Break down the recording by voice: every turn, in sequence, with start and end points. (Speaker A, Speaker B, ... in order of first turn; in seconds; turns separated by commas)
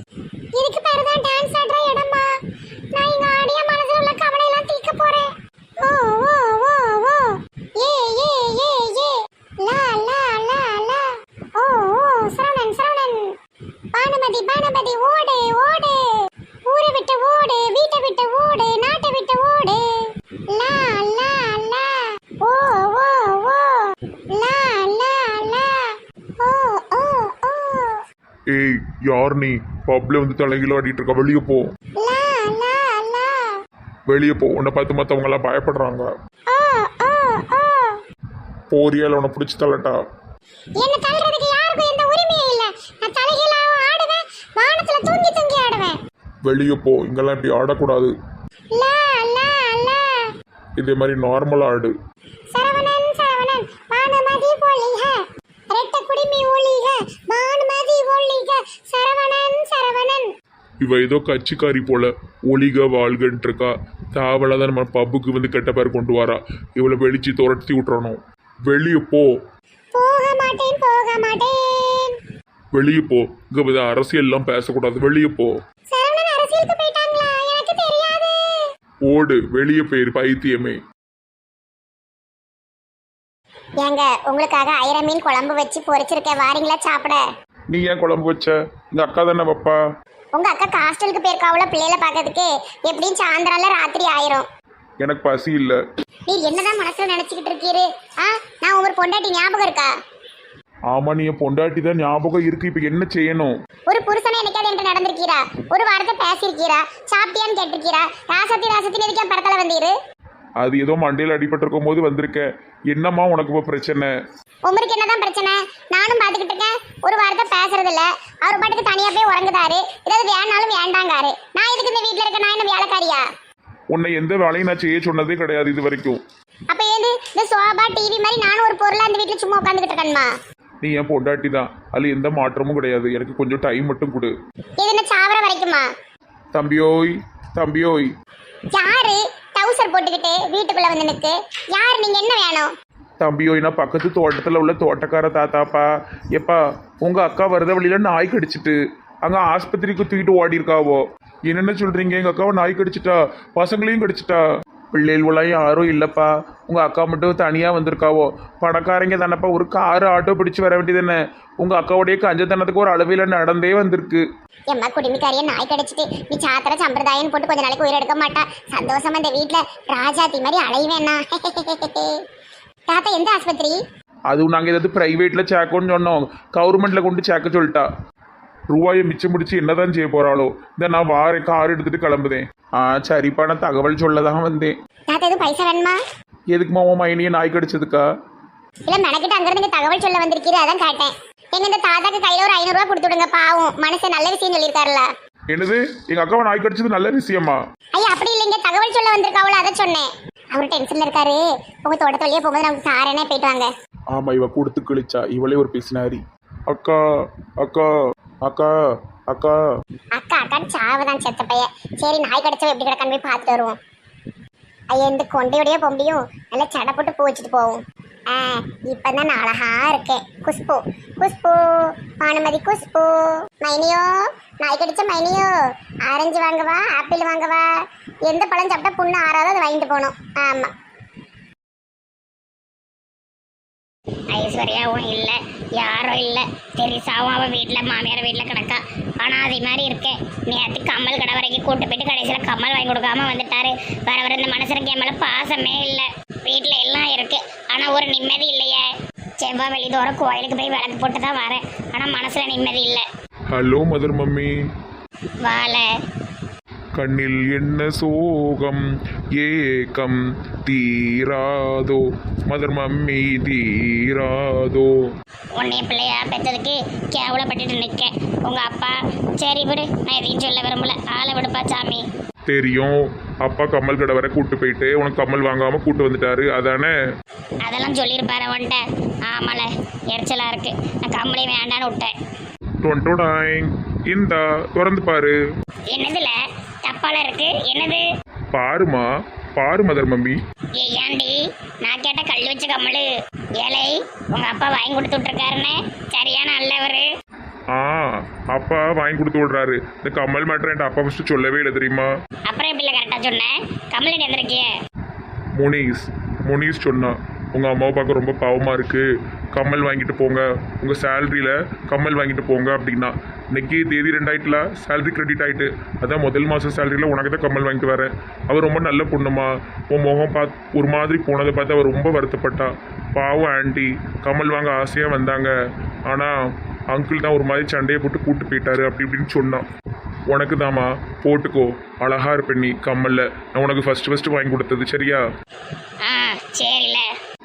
Speaker A: 0.6-2.3, Speaker A: 2.9-5.3, Speaker A: 5.8-13.3, Speaker A: 13.9-28.0, Speaker B: 28.5-31.7, Speaker A: 32.0-33.5, Speaker B: 34.1-36.1, Speaker A: 36.5-38.0, Speaker B: 38.7-40.0, Speaker A: 40.8-46.0, Speaker B: 46.5-48.1, Speaker A: 48.8-50.3, Speaker B: 50.8-51.9, Speaker A: 52.5-60.3, Speaker B: 60.8-68.2, Speaker B: 68.7-69.3, Speaker A: 70.0-72.2, Speaker B: 72.7-75.5, Speaker A: 75.9-78.6, Speaker B: 79.1-80.8, Speaker A: 83.8-87.2, Speaker B: 87.7-89.8, Speaker A: 90.3-94.5, Speaker B: 95.0-95.8, Speaker A: 96.3-99.9, Speaker B: 100.9-103.5, Speaker A: 103.9-109.9, Speaker B: 110.6-114.1, Speaker A: 114.7-123.3, Speaker B: 123.9-126.2, Speaker A: 126.7-130.3, Speaker B: 130.8-134.3, Speaker A: 134.8-135.9, Speaker B: 136.5-138.1, Speaker A: 138.7-142.7, Speaker B: 143.2-154.4, Speaker B: 154.9-164.2, Speaker A: 164.7-172.2, Speaker A: 172.9-173.8, Speaker B: 174.3-177.9, Speaker B: 178.7-184.8, Speaker A: 185.1-186.0, Speaker B: 186.5-188.1, Speaker A: 188.9-195.1, Speaker B: 195.5-197.6, Speaker A: 197.9-203.7, Speaker B: 204.1-207.0, Speaker B: 207.6-207.9, Speaker B: 208.4-208.7, Speaker B: 209.3-209.6, Speaker A: 210.2-213.8, Speaker A: 214.9-225.6, Speaker A: 226.1-227.7, Speaker A: 228.3-230.7, Speaker C: 234.3-248.9, Speaker C: 249.4-253.1, Speaker B: 253.5-254.5, Speaker C: 255.4-255.9, Speaker B: 256.9-258.8, Speaker B: 259.4-264.9, Speaker C: 265.6-272.0, Speaker B: 272.5-277.0, Speaker C: 277.7-282.1, Speaker B: 282.8-285.4, Speaker C: 285.9-286.4, Speaker C: 286.9-288.0, Speaker B: 288.5-290.4, Speaker C: 290.8-297.1, Speaker B: 297.7-302.1, Speaker C: 302.5-304.7, Speaker B: 305.6-325.5, Speaker B: 326.9-329.7, Speaker B: 330.3-335.2, Speaker C: 336.1-337.1